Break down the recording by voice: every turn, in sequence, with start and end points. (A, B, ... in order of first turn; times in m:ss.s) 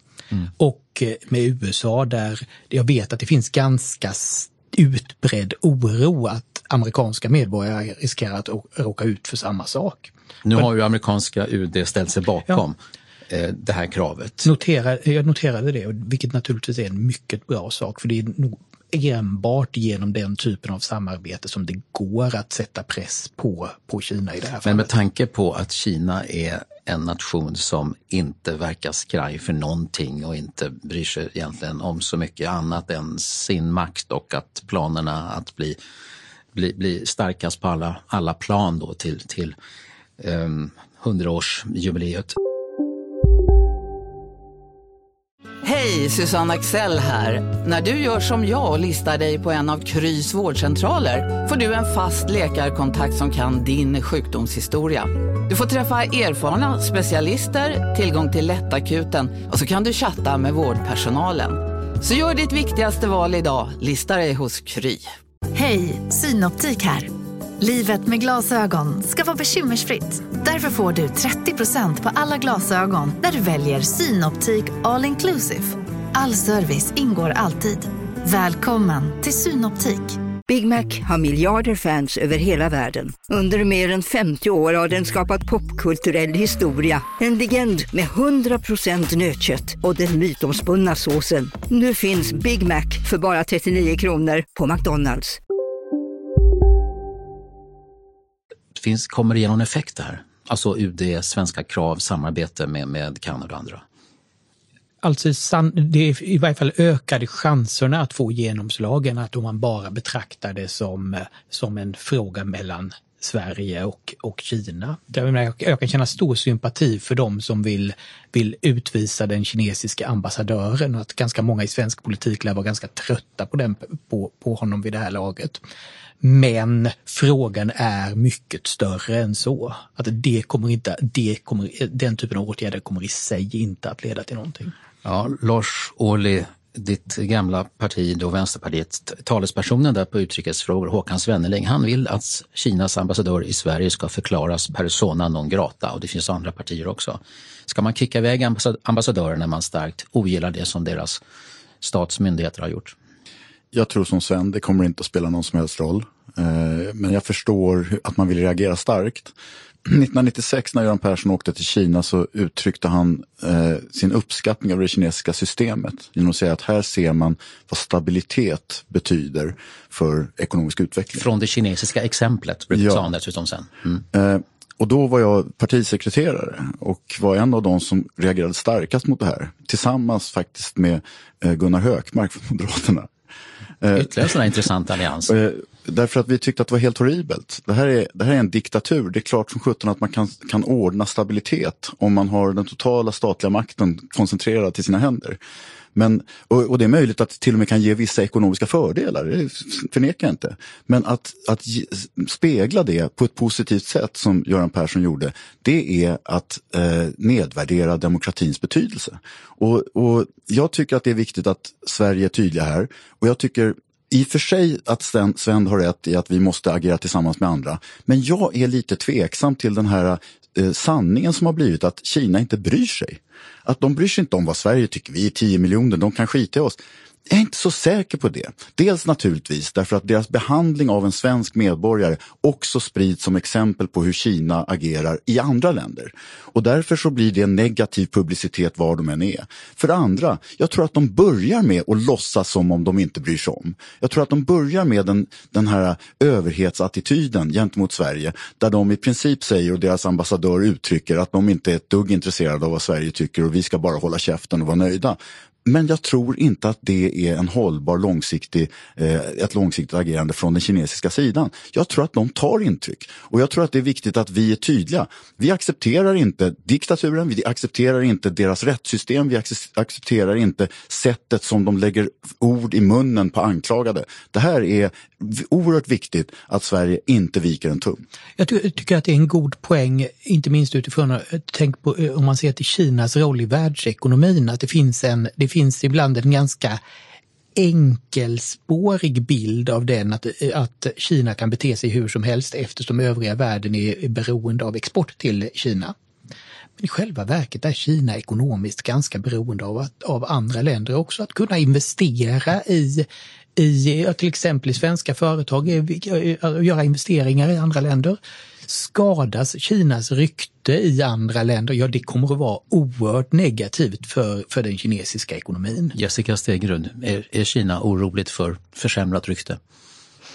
0:00.6-0:10.7 A
0:10.4-0:12.8 B
0:13.3-0:14.5 B
0:14.4-0:24.9 A
0:24.6-0:35.8 B
0:36.6-0:39.6 B
0:40.2-0:42.3 B
0:45.6-1:05.1 C
1:05.5-1:20.2 D
1:20.5-1:35.4 E
1:38.8-1:43.8 B
1:45.0-2:05.6 A
2:06.2-2:14.7 A
2:15.0-2:31.2 B
2:31.8-2:32.9 B
2:33.7-2:39.3 F
2:39.9-2:51.2 F
2:51.2-2:54.0 B
2:52.7-2:53.0 F
2:54.1-3:03.1 F
3:03.8-3:04.4 F
3:03.9-3:05.3 B
3:05.3-3:15.4 F
3:16.0-4:38.0 F
4:38.4-4:46.8 A
4:47.6-4:55.9 A
4:56.8-5:16.0 A
5:16.0-5:19.6 B